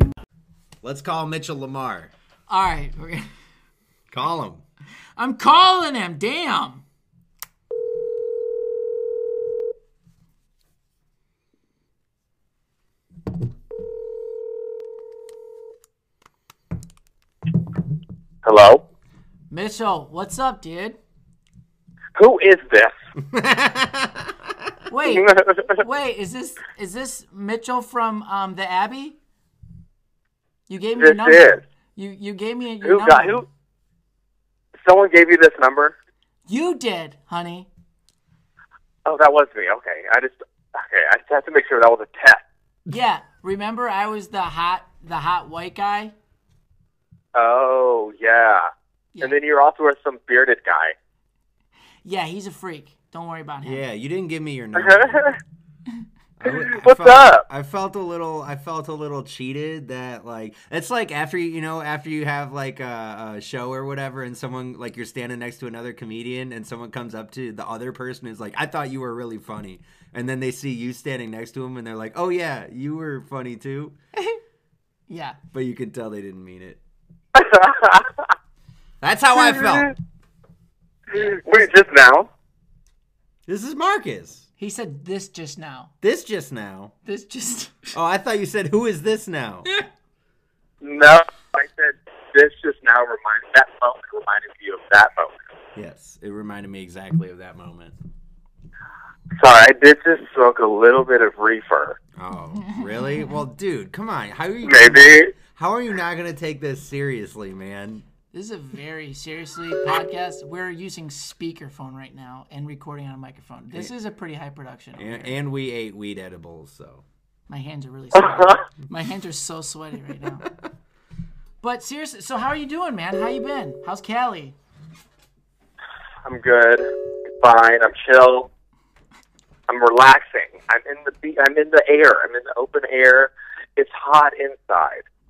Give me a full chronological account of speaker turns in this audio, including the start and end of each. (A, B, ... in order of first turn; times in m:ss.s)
0:00.8-0:02.1 A
0:02.5-0:03.3 B
0:04.1-0:04.6 A
0:05.2-0:06.8 B
0:18.4-0:18.8 C
0:19.5-0:21.0 B
0:22.2-0:22.9 C
0:23.3-0:24.5 A
0:24.9-0:29.2 B
0:25.1-0:25.8 C
0:30.7-0:33.4 B
0:31.0-0:31.6 C
0:32.8-0:33.4 C
0:34.8-0:36.0 C
0:36.5-0:37.7 B
0:39.0-0:42.4 C
0:42.9-0:46.1 B
0:47.3-0:48.7 C
0:49.2-0:50.9 C
0:52.0-0:53.8 B
0:53.6-0:55.3 A
0:54.8-0:55.4 C
0:56.4-1:13.9 A
0:56.4-0:57.4 C
1:15.1-1:15.4 B
1:15.5-1:16.8 A
1:17.3-1:18.1 C
1:19.0-1:19.9 A
1:21.1-1:22.3 C
1:23.5-1:24.5 A
1:24.6-1:25.9 B
1:26.0-1:26.9 A
1:27.0-1:27.9 B
1:27.9-1:29.7 A
1:30.8-1:35.4 C
1:35.8-1:38.0 A
1:39.4-1:42.0 C
1:42.2-1:48.0 A
1:42.6-1:43.3 B
1:44.6-1:45.3 C
1:48.3-1:55.4 B
1:55.0-1:57.0 A
1:57.5-2:00.5 B
1:58.2-1:58.6 C
2:01.6-2:04.5 B
2:06.2-2:06.9 C
2:07.4-2:08.5 C
2:09.7-2:15.0 C